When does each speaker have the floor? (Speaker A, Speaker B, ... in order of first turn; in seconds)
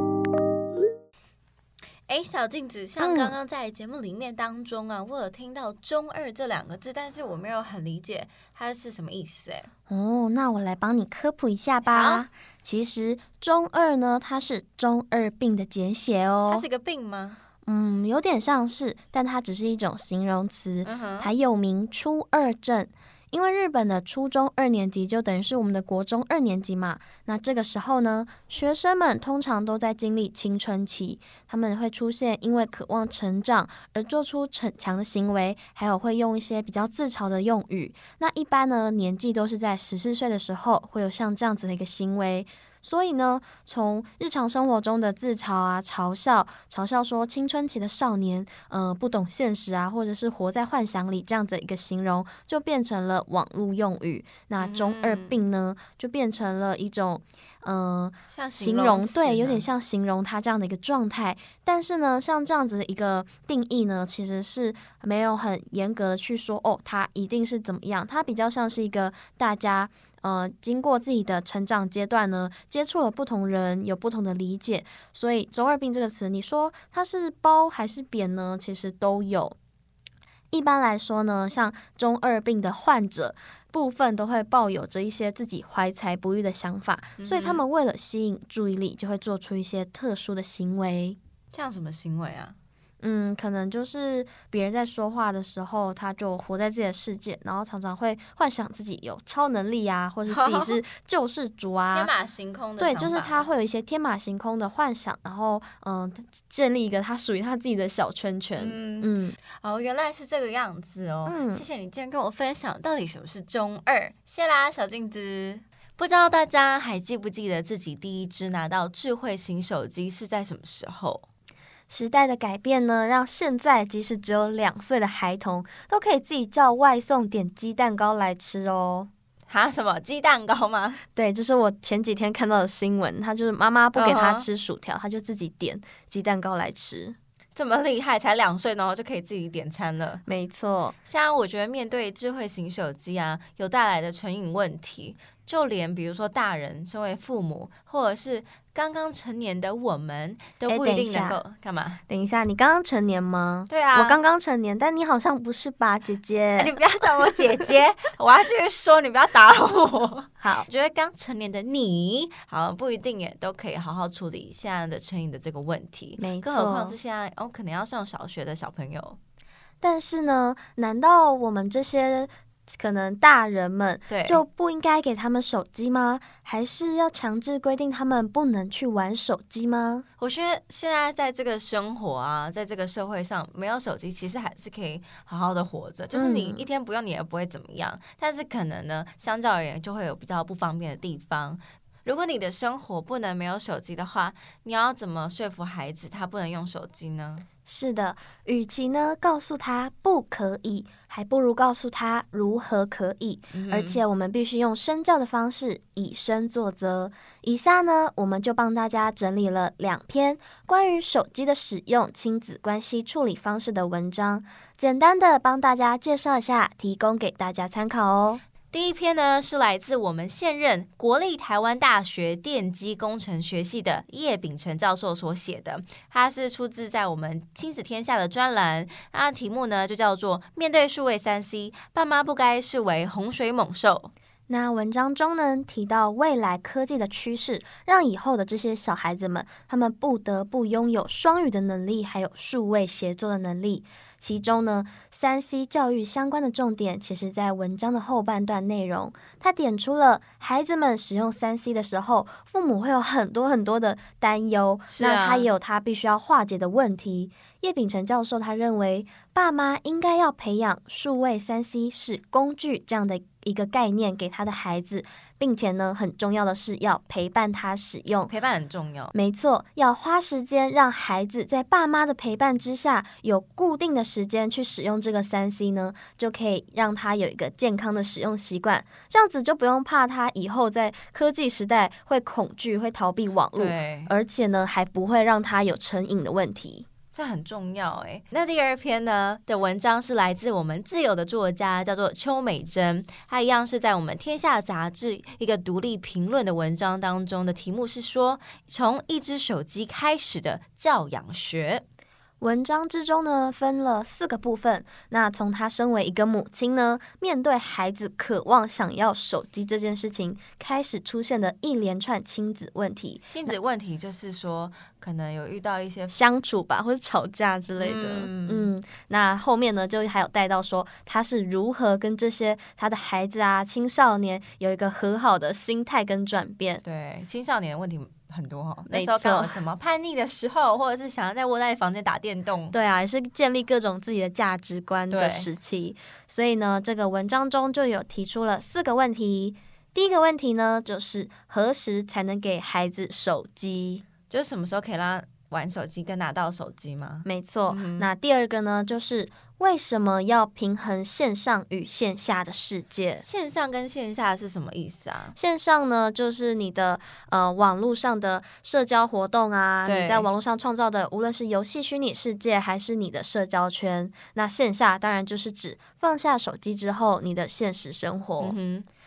Speaker A: 2.1-9.7, 11.9-12.2, 16.5-17.4, 20.8-21.3, 54.6-55.4, 58.3-59.6, 87.2-87.6, 91.5-92.5, 100.3-100.8, 101.9-103.5, 108.6-121.3, 129.5-131.0, 133.9-134.5, 137.6-140.2, 141.1-152.0, 153.7-154.2, 156.6-169.2, 174.1-174.4, 180.2-197.4, 203.5-204.0, 218.7-234.1, 254.9-255.5, 268.3-269.1, 283.6-284.1, 287.1-301.8, 313.3-316.1, 317.8-318.7, 326.8-332.8, 335.1-335.5, 344.3-348.1, 353.2-355.4, 359.9-360.3, 368.4-368.9
Speaker B: 3.0-3.4, 9.9-16.6, 17.6-79.6, 80.5-91.2, 93.0-102.1, 102.8-109.4, 111.3-111.6, 121.9-129.1, 131.1-137.2, 140.3-140.9, 150.7-151.4, 152.1-156.7, 160.4-160.7, 166.2-166.9, 169.8-180.1, 186.1-186.7, 197.7-218.4, 234.5-268.3, 269.1-286.9, 302.4-313.5, 316.1-326.8, 328.9-329.6, 332.7-344.0, 347.2-353.2, 355.4-368.6